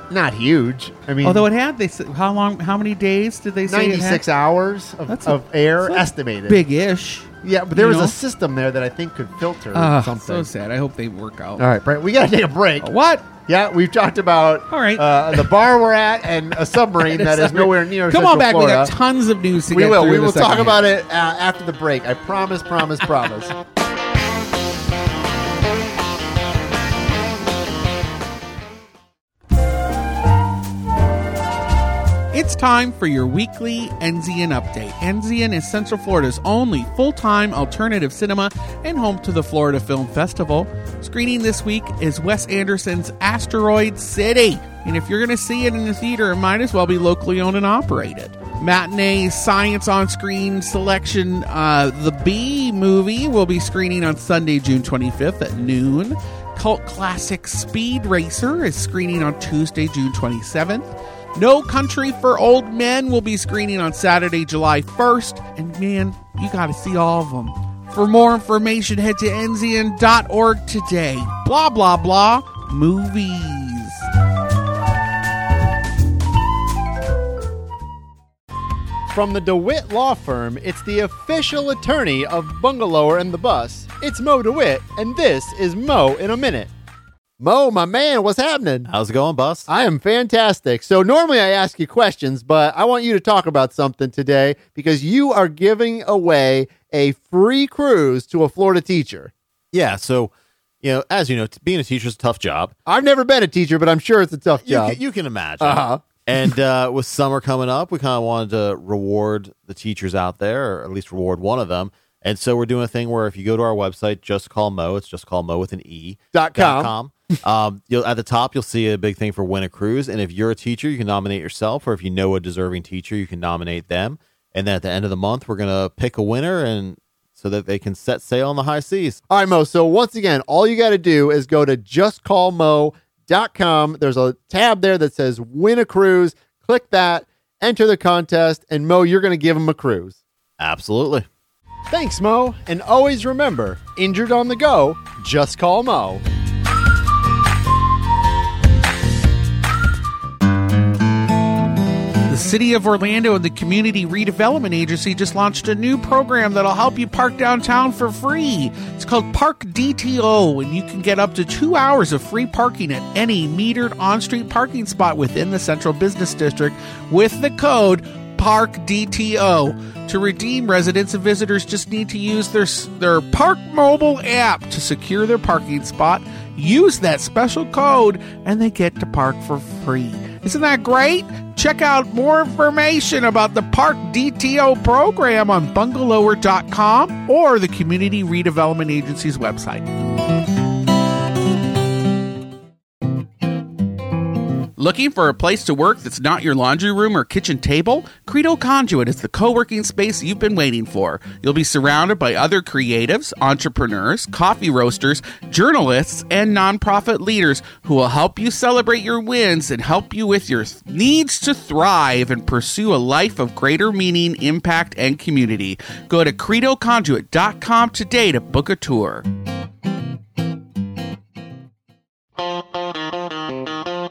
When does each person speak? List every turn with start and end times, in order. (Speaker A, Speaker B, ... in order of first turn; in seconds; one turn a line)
Speaker A: 0.1-1.5
Speaker B: 1.2-4.2
Speaker A: 3.7-6.6
Speaker B: 5.1-8.2
Speaker A: 7.4-10.5
Speaker B: 9.7-11.6
Speaker A: 11.6-18.9
Speaker B: 12.8-13.3
Speaker B: 14.7-15.4
Speaker B: 17.0-20.8
Speaker A: 19.7-23.6
Speaker B: 32.3-74.1
Speaker A: 79.1-86.7
Speaker A: 87.4-88.9
Speaker C: 88.9-89.7
Speaker A: 89.7-99.3
Speaker C: 99.7-100.3
Speaker C: 100.8-102.7
Speaker A: 102.9-105.0
Speaker C: 104.6-129.2
Speaker A: 105.6-106.5
Speaker A: 116.3-116.9
Speaker A: 129.3-140.2
Speaker C: 140.6-141.3
Speaker A: 141.9-146.2
Speaker B: 152.3-189.9
Speaker B: 194.8-219.3